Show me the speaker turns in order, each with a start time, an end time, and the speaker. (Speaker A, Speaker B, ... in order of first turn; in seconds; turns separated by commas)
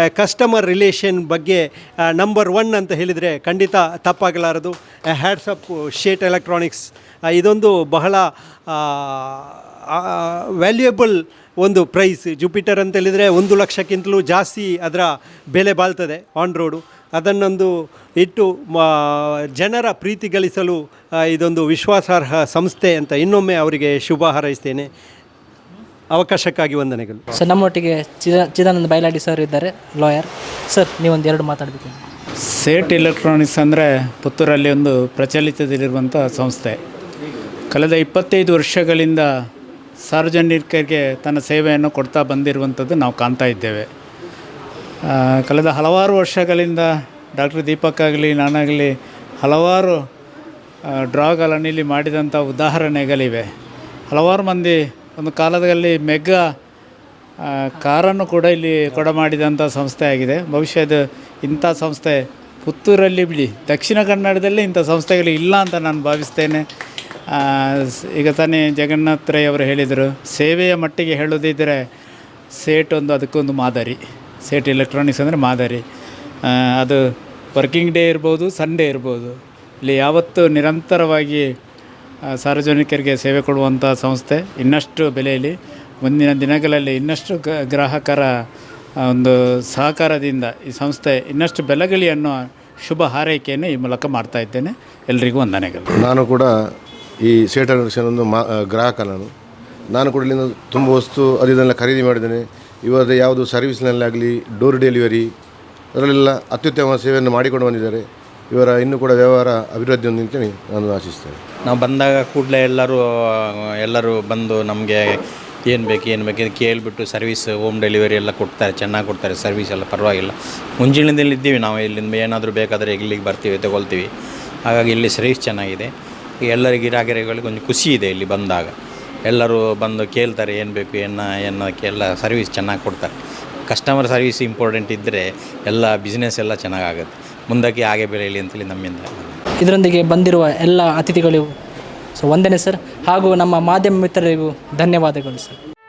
Speaker A: 0.1-24.9, Speaker A: 26.1-27.2, Speaker B: 27.4-32.0, Speaker C: 32.4-36.8, Speaker C: 37.7-39.3, Speaker C: 40.0-43.9, Speaker C: 45.0-50.1, Speaker C: 50.9-53.5, Speaker C: 54.1-56.4, Speaker C: 57.4-66.7, Speaker C: 67.3-71.9, Speaker C: 72.5-75.8, Speaker C: 76.4-77.0, Speaker C: 77.5-81.5, Speaker C: 82.3-88.3, Speaker C: 89.0-95.9, Speaker D: 96.0-96.5, Speaker D: 97.2-99.3, Speaker D: 99.9-105.3, Speaker D: 105.9-111.5, Speaker E: 111.7-115.2, Speaker E: 115.7-124.1, Speaker E: 124.7-125.9, Speaker E: 126.5-128.7, Speaker E: 129.3-133.1, Speaker E: 133.7-139.4, Speaker B: 139.6-141.5, Speaker B: 142.2-145.6